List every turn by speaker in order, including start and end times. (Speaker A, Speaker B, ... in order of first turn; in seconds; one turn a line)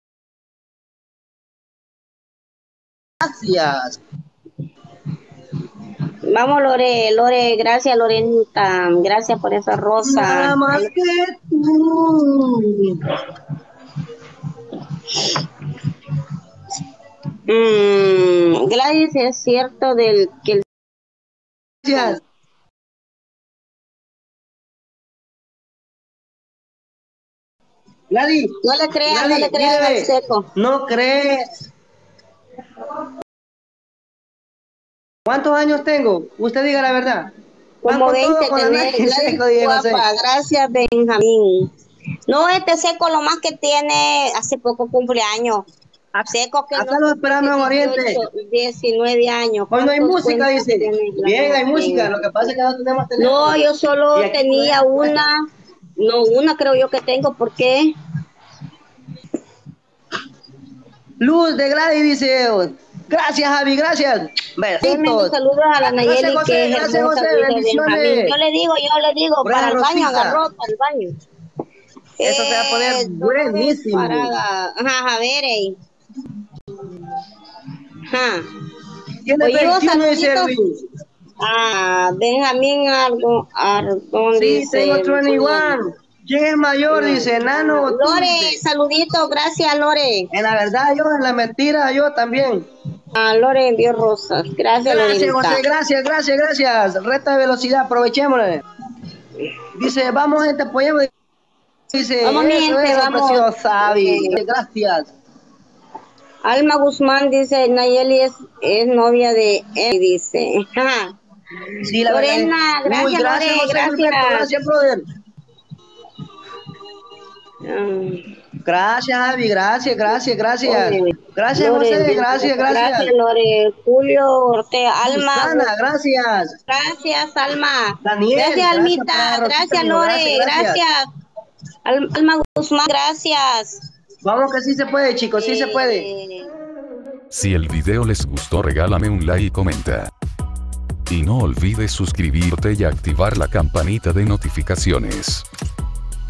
Speaker A: 3.2-4.0
Speaker B: 6.3-10.8
Speaker A: 10.0-13.0
Speaker B: 17.5-20.6
Speaker A: 21.9-22.2
Speaker B: 21.9-22.2
Speaker A: 28.1-28.5
Speaker B: 28.6-30.5
Speaker A: 29.1-31.4
Speaker A: 35.2-37.3
Speaker B: 37.8-41.7
Speaker A: 37.9-40.0
Speaker B: 42.3-52.3
Speaker A: 46.7-48.2
Speaker A: 49.7-53.6
Speaker B: 53.2-55.4
Speaker A: 54.1-55.3
Speaker B: 56.0-57.9
Speaker A: 61.2-68.3
Speaker B: 64.8-71.1
Speaker A: 69.4-70.4
Speaker B: 72.2-75.7
Speaker A: 72.2-74.3
Speaker B: 78.1-78.4
Speaker A: 79.2-80.8
Speaker B: 79.4-80.5
Speaker B: 81.4-85.8
Speaker A: 84.3-88.6
Speaker B: 86.9-90.3
Speaker A: 90.3-92.7
Speaker B: 93.1-95.6
Speaker A: 94.8-98.6
Speaker A: 99.7-101.1
Speaker A: 101.9-105.1
Speaker B: 102.2-104.4
Speaker B: 106.4-111.1
Speaker A: 111.8-115.0
Speaker B: 112.0-114.5
Speaker B: 117.7-118.2
Speaker A: 118.6-123.1
Speaker B: 120.7-125.7
Speaker A: 125.0-126.5
Speaker B: 126.7-131.0
Speaker A: 128.0-130.8
Speaker B: 131.8-133.8
Speaker A: 134.2-136.1
Speaker B: 135.4-136.5
Speaker C: 137.3-140.1
Speaker C: 141.1-145.4